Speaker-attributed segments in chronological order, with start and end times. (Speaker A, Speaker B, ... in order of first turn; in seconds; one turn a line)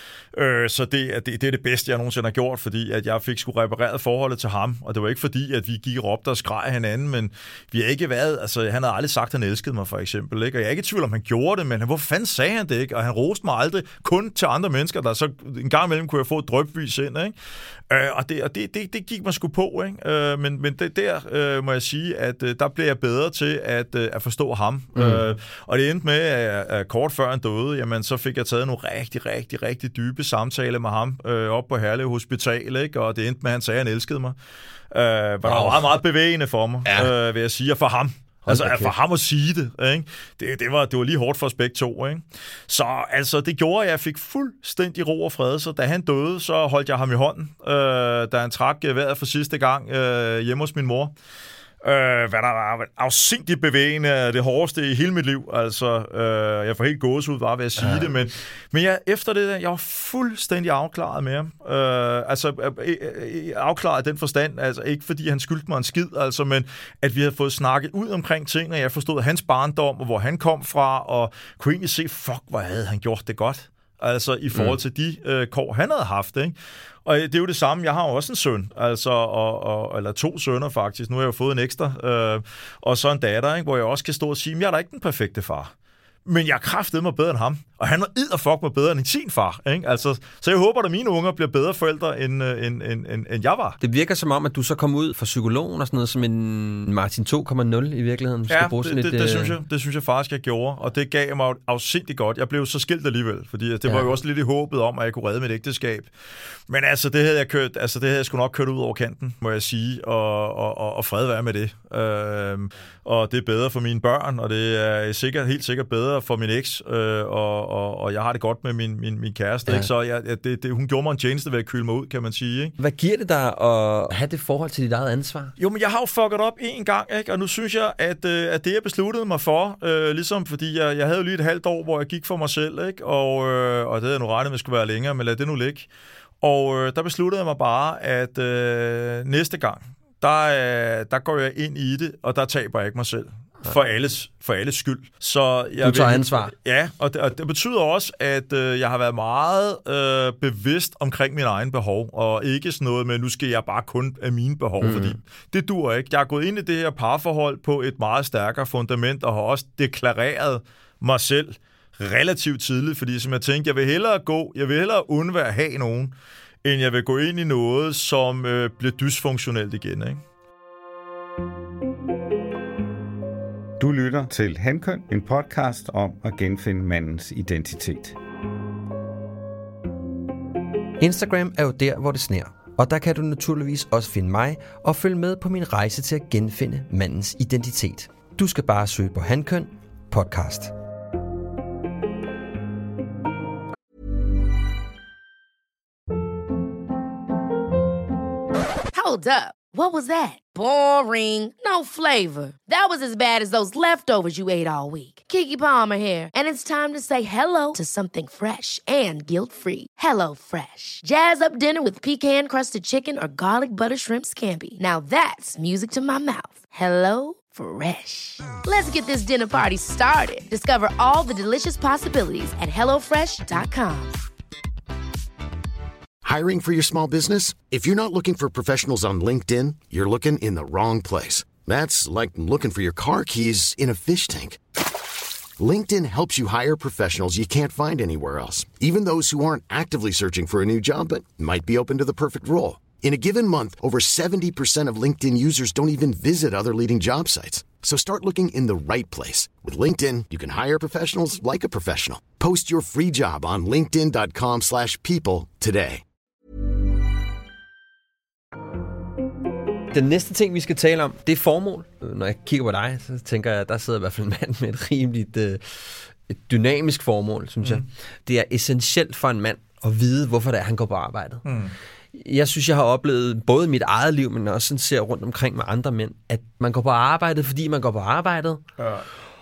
Speaker A: 0.3-17.3
Speaker A: 17.9-34.3
Speaker B: 24.9-25.2
Speaker A: 34.9-51.1
Speaker B: 35.4-35.9
Speaker B: 36.8-37.1
Speaker B: 38.5-38.9
Speaker A: 51.8-76.5
Speaker B: 57.8-58.1
Speaker A: 77.0-85.7
Speaker A: 86.2-93.8
Speaker B: 93.8-99.6
Speaker A: 98.5-106.1
Speaker A: 106.7-122.8
Speaker B: 122.8-125.5
Speaker A: 125.6-135.9
Speaker A: 136.4-166.1
Speaker B: 145.8-146.5
Speaker B: 154.8-155.2
Speaker A: 166.6-170.2
Speaker C: 173.8-178.1
Speaker B: 181.0-190.7
Speaker D: 198.9-224.1
Speaker E: 226.2-234.6
Speaker E: 235.6-256.0
Speaker B: 259.9-271.4
Speaker A: 271.4-271.7
Speaker B: 272.1-278.6
Speaker A: 278.8-279.1